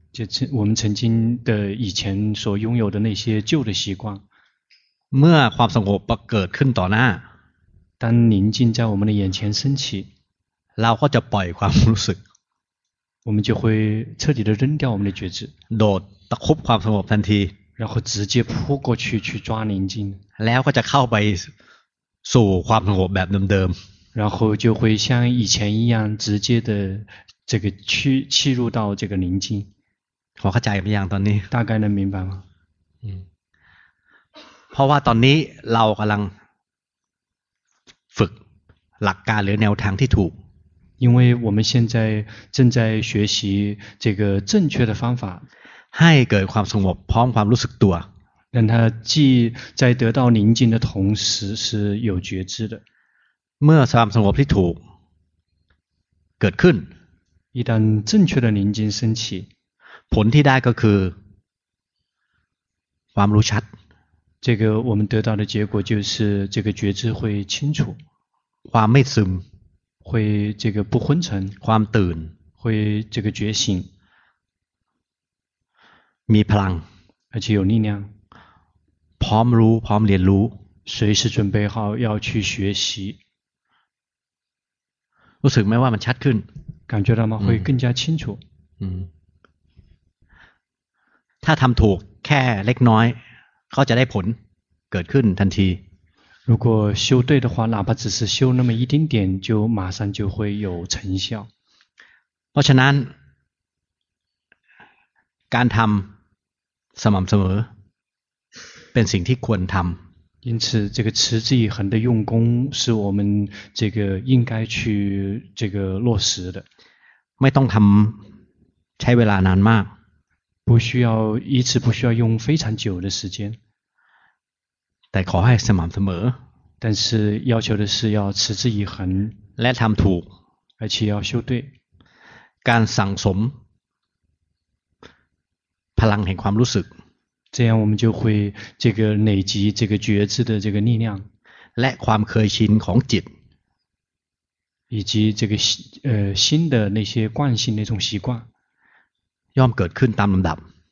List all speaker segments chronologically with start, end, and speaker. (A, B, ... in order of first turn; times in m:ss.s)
0:00.1-0:04.2 A
0:05.1-0:07.3 B
0:08.0-0:10.1 A
0:10.8-0:12.2 B
0:13.2-0:15.5 A
0:15.7-0:17.6 B
0:17.8-0:20.2 A
0:20.4-0:21.5 B
0:22.2-0:23.8 B
0:24.2-0:29.7 A
0:30.4-0:31.5 B
0:31.5-0:32.4 A
0:34.7-0:36.3 B
0:38.1-0:38.4 B
0:39.0-0:40.4 B
0:41.0-0:45.5 A
0:45.9-0:48.1 B
0:48.5-0:52.8 A
0:53.6-0:54.8 B
0:56.4-0:56.9 B
0:57.5-0:59.5 A
1:00.1-1:01.2 B
1:03.2-1:03.7 B
1:04.4-1:08.0 A
1:08.7-1:09.4 B
1:10.0-1:11.6 A
1:11.6-1:12.3 B
1:12.6-1:13.9 A
1:16.3-1:16.8 B
1:17.3-1:18.1 A
1:19.2-1:20.6 B
1:20.9-1:23.2 A
1:25.4-1:26.4 B
1:26.9-1:28.4 A
1:27.4-1:27.7 B
1:28.8-1:29.1 B
1:31.4-1:33.2 B
1:33.7-1:34.4 B
1:34.9-1:35.8 B
1:36.5-1:41.5 A
1:42.5-1:43.1 B
1:45.5-1:46.1 B
1:47.0-1:47.7 B
1:48.9-1:50.0 B
1:50.4-1:56.6 A
1:57.4-1:58.2 B
1:59.0-1:59.9 B
2:00.7-2:03.6 A
2:05.1-2:06.4 B
2:06.8-2:09.4 A
2:09.6-2:10.3 B
2:10.8-2:11.7 A
2:12.6-2:13.6 B
2:16.0-2:16.9 B
2:17.5-2:21.3 A
2:21.8-2:23.3 B
2:24.9-2:28.5 A
2:29.6-2:30.6 B